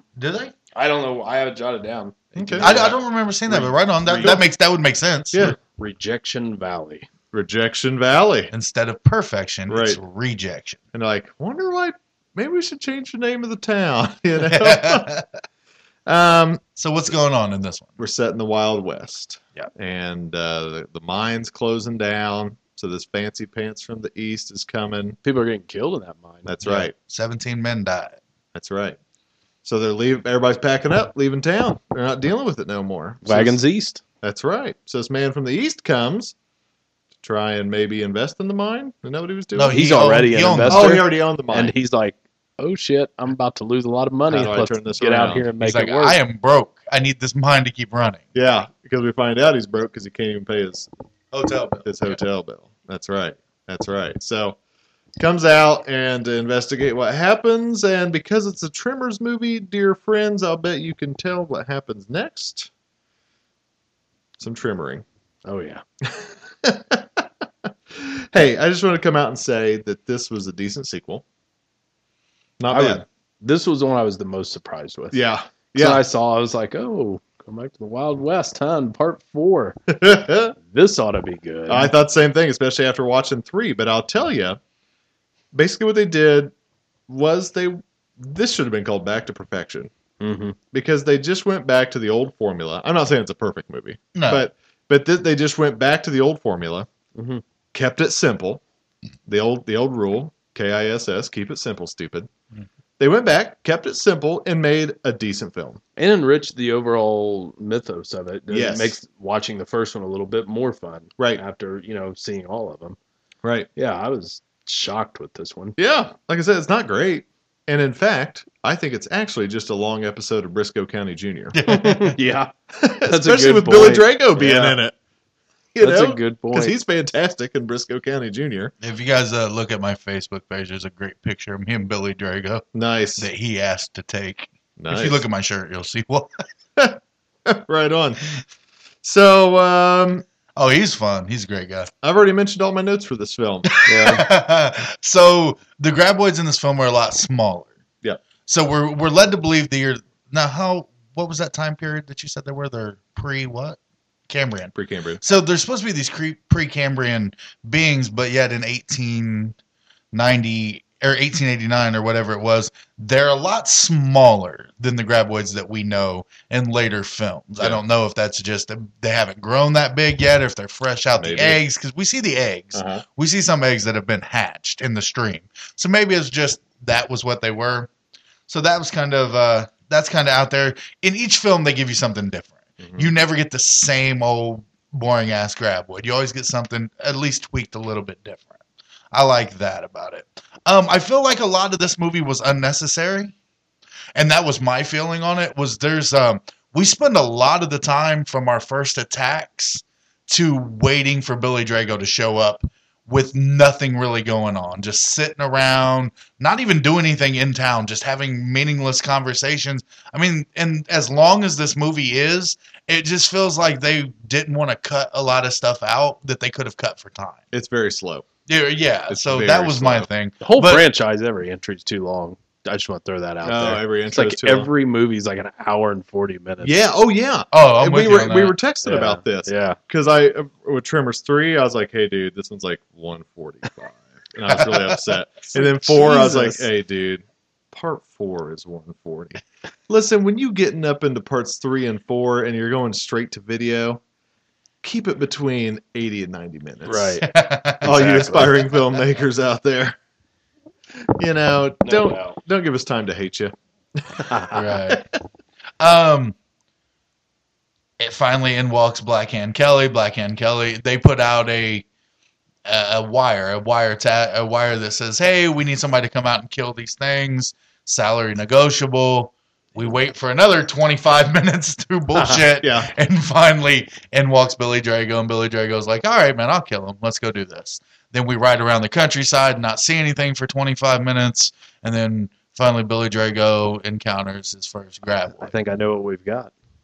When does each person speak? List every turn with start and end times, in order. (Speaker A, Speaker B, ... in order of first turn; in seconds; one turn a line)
Speaker A: 0.2-0.5
Speaker B: 0.8-4.4
Speaker C: 2.4-2.7
Speaker A: 2.6-5.5
Speaker C: 5.3-5.6
Speaker B: 5.6-7.1
Speaker C: 7.3-8.5
Speaker A: 8.5-10.8
Speaker C: 9.7-10.0
Speaker C: 10.9-15.1
Speaker A: 14.4-15.2
Speaker C: 16.1-16.6
Speaker A: 16.8-18.0
Speaker C: 18.0-25.2
Speaker B: 25.2-26.5
Speaker C: 26.4-26.9
Speaker A: 26.6-28.2
Speaker C: 28.5-29.0
Speaker C: 29.6-33.6
Speaker B: 33.2-34.0
Speaker C: 34.2-36.4
Speaker C: 37.2-39.8
Speaker A: 39.5-41.0
Speaker B: 39.7-46.2
Speaker C: 40.7-41.7
Speaker C: 44.3-45.5
Speaker A: 45.6-48.2
Speaker C: 48.3-50.9
Speaker A: 51.3-52.2
Speaker C: 51.9-54.6
Speaker C: 55.2-62.7
Speaker C: 64.4-65.0
Speaker B: 65.5-65.8
Speaker C: 66.0-71.2
Speaker C: 72.6-73.0
Speaker B: 72.7-75.2
Speaker C: 75.1-76.0
Speaker B: 75.8-79.8
Speaker C: 79.9-80.5
Speaker B: 80.7-81.9
Speaker C: 81.7-84.6
Speaker C: 85.5-86.5
Speaker C: 87.1-89.9
Speaker B: 90.2-90.6
Speaker C: 90.7-96.9
Speaker A: 94.2-94.5
Speaker B: 97.2-97.4
Speaker C: 97.7-98.6
Speaker C: 99.3-102.3
Speaker C: 103.0-105.8
Speaker B: 106.0-113.0
Speaker C: 108.5-109.0
Speaker C: 113.4-113.7
Speaker B: 113.8-115.8
Speaker C: 115.8-121.6
Speaker A: 121.5-122.2
Speaker B: 121.7-124.8
Speaker C: 122.8-125.0
Speaker C: 125.8-128.7
Speaker B: 125.8-126.8
Speaker A: 128.8-132.7
Speaker C: 132.7-133.3
Speaker A: 133.2-136.3
Speaker C: 134.8-135.2
Speaker C: 136.8-138.2
Speaker C: 139.0-140.2
Speaker A: 140.6-141.9
Speaker C: 142.0-144.2
Speaker A: 143.7-147.7
Speaker B: 143.8-144.3
Speaker A: 148.5-153.8
Speaker A: 154.3-159.6
Speaker C: 154.8-155.2
Speaker A: 160.1-177.9
Speaker C: 171.2-171.6
Speaker C: 172.7-173.0
Speaker A: 178.5-188.5
Speaker C: 182.8-183.1
Speaker A: 189.1-193.3
Speaker A: 194.2-217.4
Speaker C: 217.5-218.3
Speaker A: 218.5-220.8
Speaker C: 219.1-220.1
Speaker B: 220.4-226.8
Speaker C: 223.4-224.7
Speaker C: 226.6-244.0
Speaker A: 227.5-228.6
Speaker B: 228.8-229.8
Speaker A: 234.5-235.0
Speaker B: 235.6-236.6
Speaker C: 244.8-247.2
Speaker B: 246.9-247.3
Speaker A: 247.2-248.3
Speaker B: 247.8-248.9
Speaker C: 247.8-250.0
Speaker C: 251.2-255.0
Speaker B: 251.8-252.4
Speaker B: 254.3-254.6
Speaker A: 254.5-255.0
Speaker A: 255.8-256.4
Speaker A: 258.0-261.9
Speaker A: 262.6-285.5
Speaker C: 272.6-272.9
Speaker B: 285.4-286.5